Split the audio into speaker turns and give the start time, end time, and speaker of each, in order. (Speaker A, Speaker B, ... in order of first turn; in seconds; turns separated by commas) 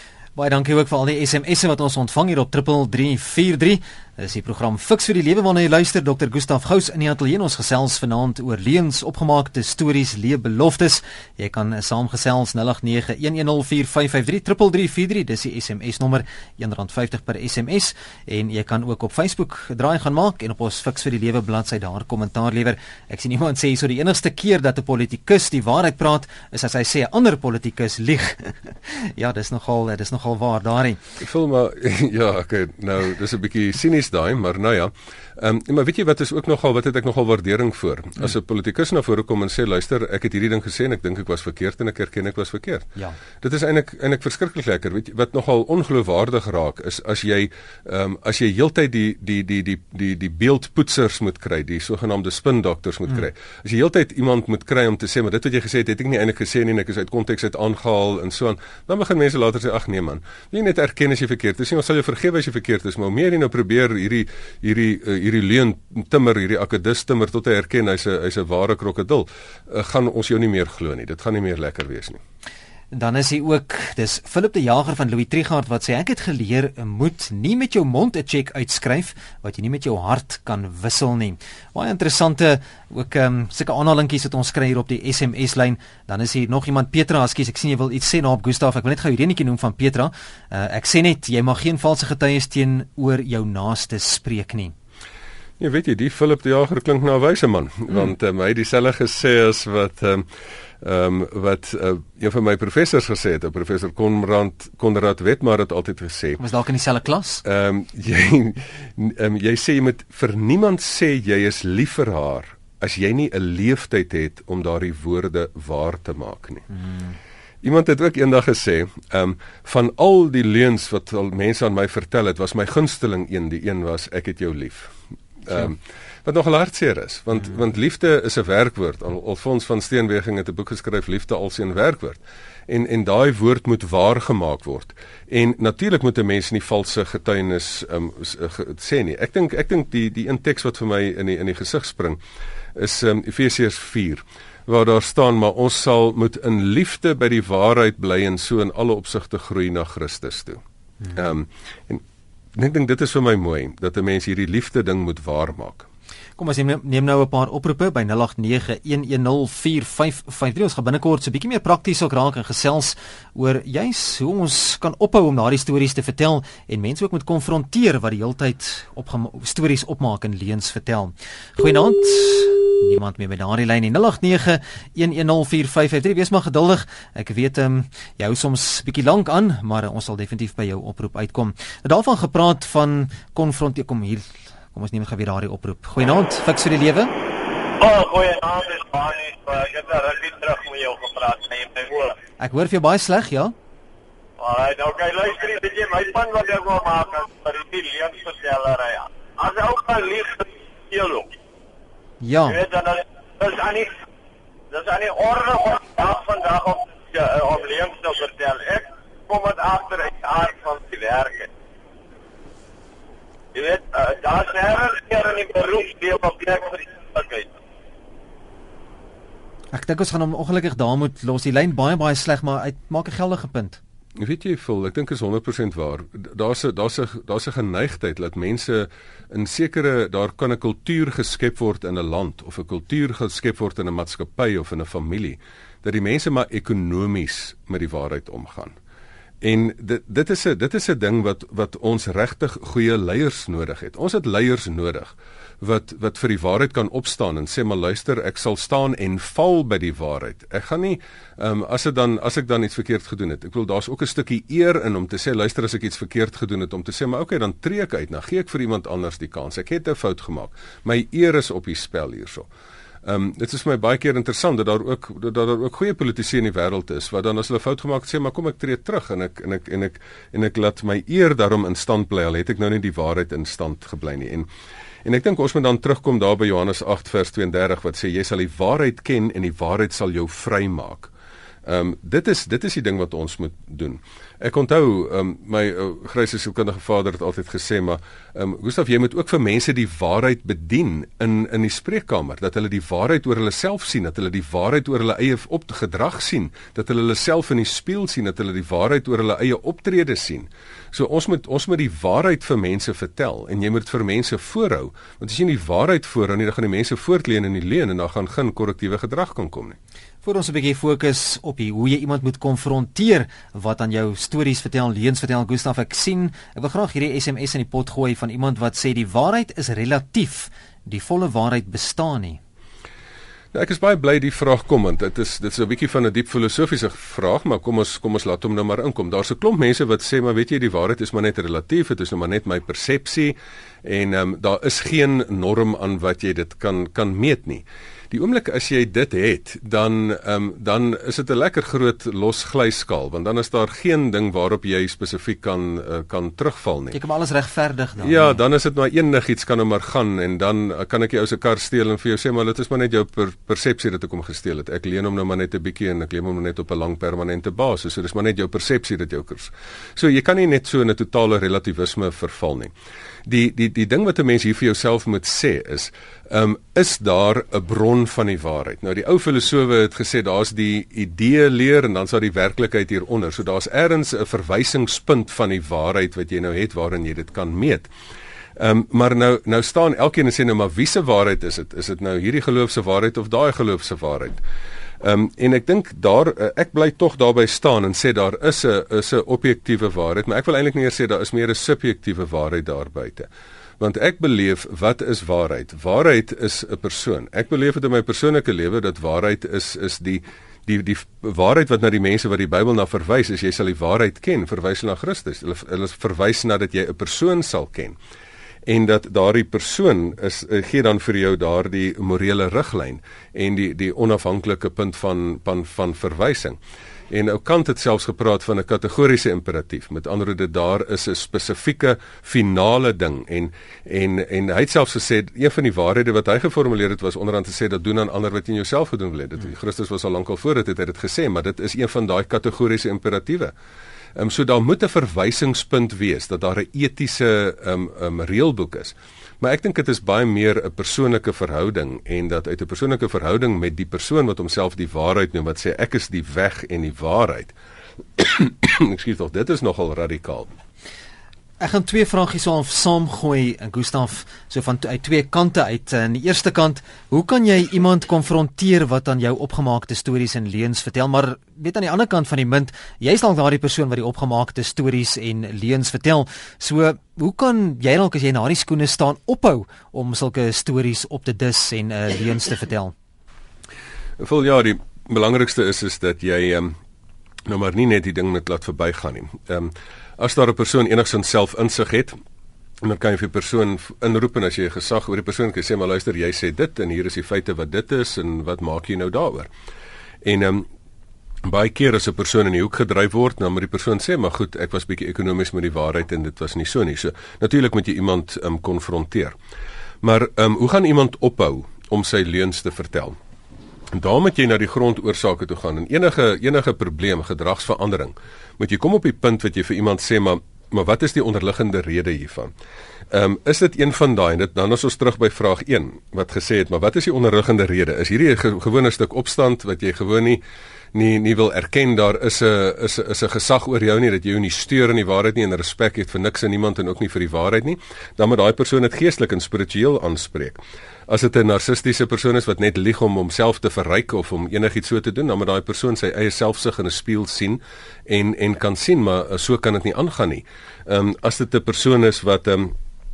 Speaker A: 0.4-31.0, Speaker B: 31.2-42.9, Speaker B: 43.4-72.2, Speaker A: 72.9-94.7, Speaker B: 95.6-100.3, Speaker B: 100.8-106.4, Speaker A: 106.4-107.4, Speaker B: 107.4-116.7, Speaker A: 116.9-117.1, Speaker B: 117.6-142.2, Speaker B: 142.8-152.0, Speaker B: 152.6-155.9, Speaker A: 156.4-187.1, Speaker C: 187.8-192.2, Speaker A: 192.4-193.5, Speaker C: 194.4-201.3, Speaker A: 202.2-202.6, Speaker C: 202.5-203.9, Speaker C: 204.7-211.5, Speaker C: 213.5-217.5, Speaker A: 219.7-223.8, Speaker B: 224.2-238.8, Speaker B: 239.4-262.5, Speaker B: 263.1-274.5, Speaker B: 275.1-281.1, Speaker B: 281.7-309.8, Speaker A: 310.2-322.4, Speaker B: 323.5-347.0, Speaker A: 346.9-348.4, Speaker B: 348.0-362.7, Speaker B: 363.3-377.9, Speaker B: 378.6-384.4, Speaker B: 385.0-393.3, Speaker B: 393.8-408.0, Speaker B: 408.7-416.6, Speaker B: 417.1-433.5, Speaker B: 434.2-447.5, Speaker B: 448.2-450.5, Speaker A: 451.6-472.9, Speaker B: 474.2-476.8, Speaker B: 477.5-482.1, Speaker B: 482.8-489.5, Speaker B: 490.2-490.7, Speaker B: 491.4-499.4, Speaker B: 500.0-503.2, Speaker B: 503.9-512.5, Speaker B: 513.1-520.4, Speaker B: 520.9-542.8